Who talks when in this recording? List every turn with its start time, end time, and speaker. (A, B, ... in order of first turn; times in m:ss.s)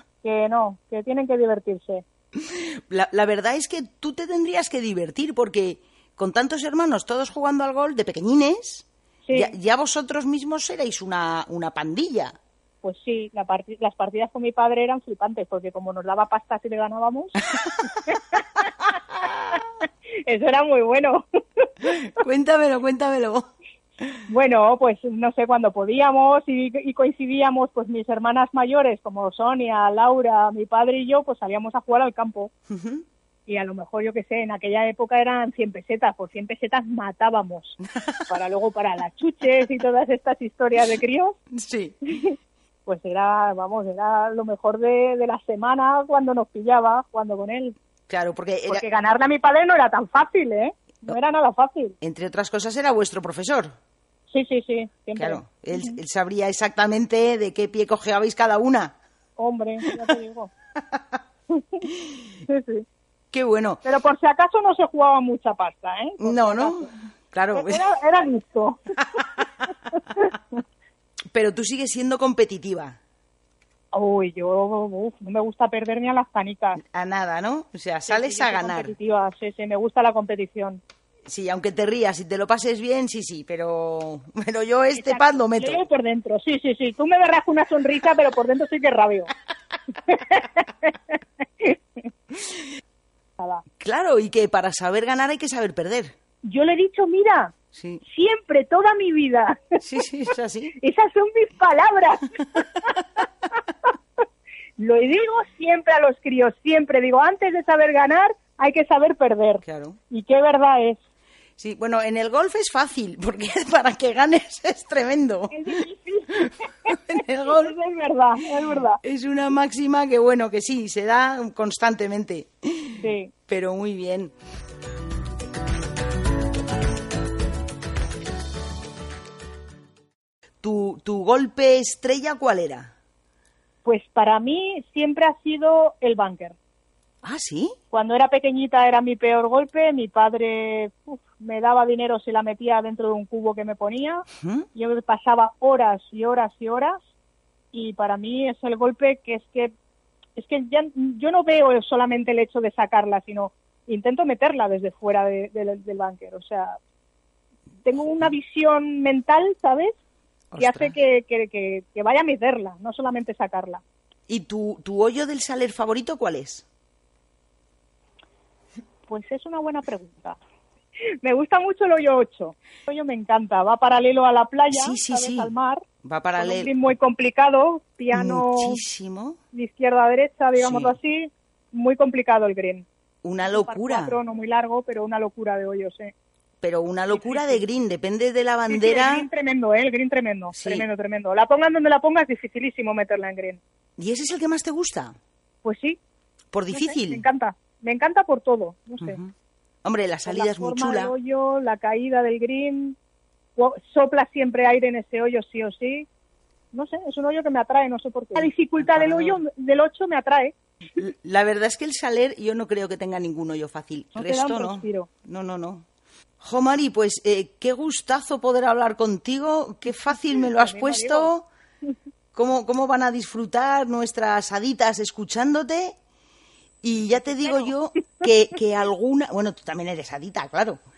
0:00.2-0:02.0 A
0:02.3-0:12.3 B
0:09.2-0:09.5 A
0:12.8-0:17.4 A
0:17.6-0:17.9 B
0:18.0-0:21.7 A
0:21.8-0:23.5 B
0:24.3-0:32.5 A
0:32.7-0:33.0 B
0:33.5-0:41.4 A
0:38.0-0:38.2 B
0:41.5-0:42.0 B
0:42.0-0:47.8 A
0:48.1-0:48.8 B
0:48.7-0:52.0 A
0:52.0-0:53.7 B
0:54.3-0:56.0 A
0:55.2-0:58.9 B
0:59.4-1:00.5 A
1:01.5-1:01.8 A
1:02.4-1:02.8 A
1:03.3-1:03.8 B
1:03.8-1:06.9 A
1:06.2-1:07.8 B
1:07.5-1:09.2 A
1:09.9-1:10.6 A
1:11.3-1:13.0 B
1:13.9-1:16.8 A
1:16.8-1:18.9 B
1:18.1-1:20.8 A
1:21.3-1:25.8 B
1:24.9-1:29.3 A
1:30.0-1:31.8 A
1:33.4-1:33.6 A
1:33.8-1:36.1 B
1:36.4-1:39.8 A
1:37.7-1:38.0 B
1:39.8-1:40.7 B
1:40.7-1:43.2 A
1:43.8-1:44.2 A
1:44.8-1:51.0 A
1:49.6-1:50.0 B
1:51.6-1:55.8 B
1:55.5-1:59.0 A
1:56.4-1:57.8 B
1:59.0-2:04.3 B
2:03.0-2:03.3 A
2:10.6-2:12.9 B
2:13.8-2:16.6 A
2:17.2-2:17.7 B
2:17.9-2:27.0 A
2:24.4-2:24.7 B
2:27.7-2:29.7 A
2:30.4-2:36.8 A
2:37.8-2:40.0 A
2:40.5-2:41.0 B
2:40.6-2:43.8 A
2:44.3-2:46.6 B
2:49.0-2:50.4 A
2:51.1-2:55.9 A
2:54.7-2:56.7 B
2:56.4-2:58.8 A
2:58.1-2:59.4 B
2:59.5-3:02.9 A
3:00.6-3:01.0 B
3:03.2-3:04.2 B
3:03.4-3:06.1 A
3:06.6-3:09.3 B
3:07.1-3:07.6 A
3:08.7-3:13.6 A
3:10.5-3:10.9 B
3:14.0-3:15.1 B
3:15.6-3:16.0 A
3:16.5-3:17.3 B
3:16.7-3:19.2 A
3:19.0-3:19.3 B
3:19.8-3:21.1 B
3:20.2-3:23.0 A
3:23.6-3:26.1 A
3:26.7-3:30.5 A
3:28.3-3:29.4 B
3:31.0-3:35.8 B
3:34.2-3:35.1 A
3:36.4-3:41.5 B
3:40.4-3:41.3 A
3:42.3-3:46.0 B
3:46.8-3:50.8 B
3:47.2-3:47.7 A